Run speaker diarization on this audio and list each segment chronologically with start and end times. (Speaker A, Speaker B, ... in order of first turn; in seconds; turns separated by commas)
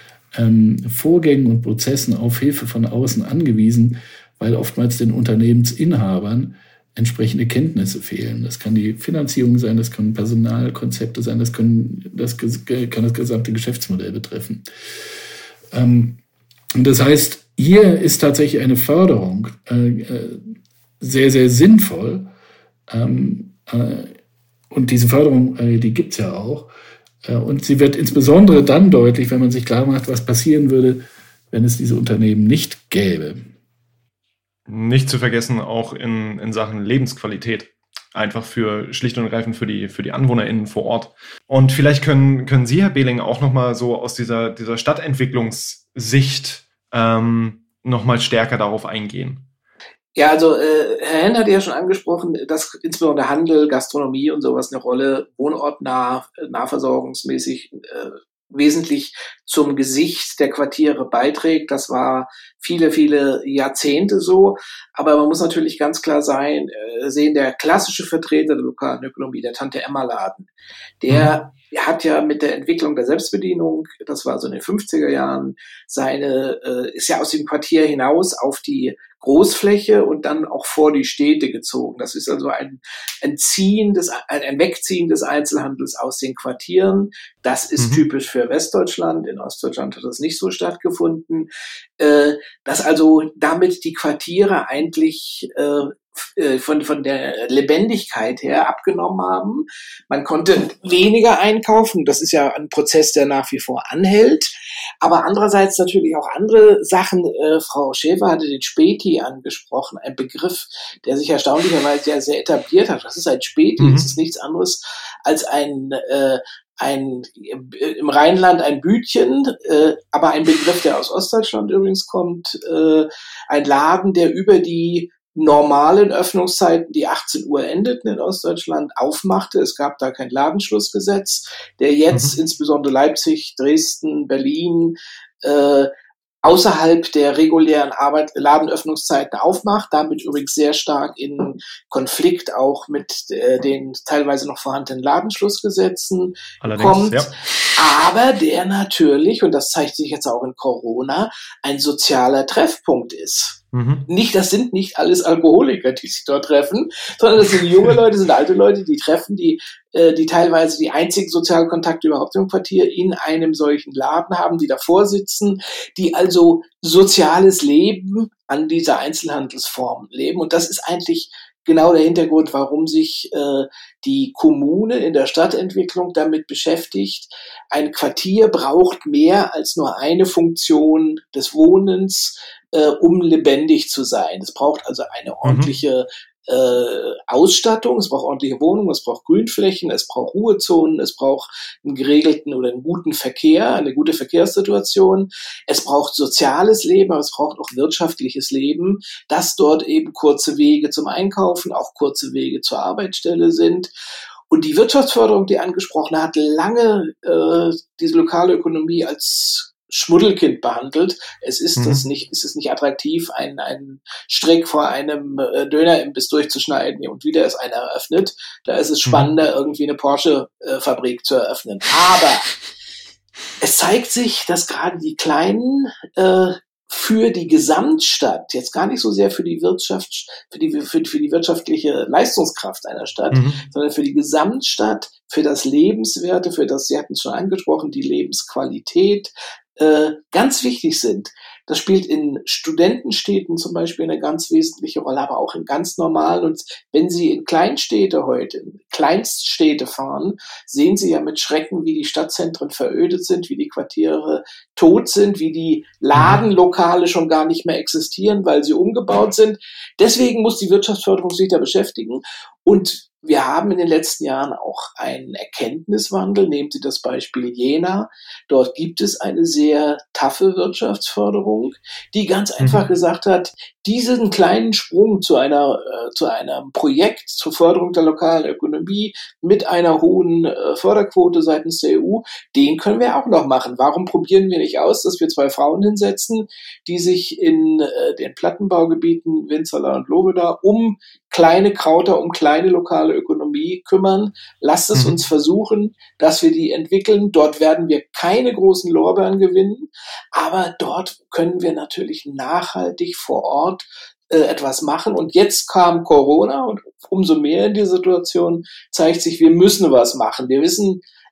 Speaker A: 0.3-14.7, Speaker A: 15.7-16.2, Speaker A: 16.8-22.3, Speaker A: 22.9-24.1, Speaker A: 24.7-26.7, Speaker A: 27.2-33.5, Speaker B: 34.7-49.5, Speaker C: 50.2-70.5, Speaker C: 71.0-91.5, Speaker B: 87.8-88.0, Speaker C: 92.0-135.9, Speaker B: 113.8-114.1, Speaker C: 136.4-203.9, Speaker B: 146.6-147.4, Speaker B: 153.7-154.1, Speaker B: 185.4-185.7, Speaker C: 204.5-222.5, Speaker B: 211.8-212.0, Speaker B: 219.1-219.3, Speaker C: 223.6-311.0, Speaker B: 233.3-233.6, Speaker B: 256.1-256.4, Speaker B: 272.6-272.9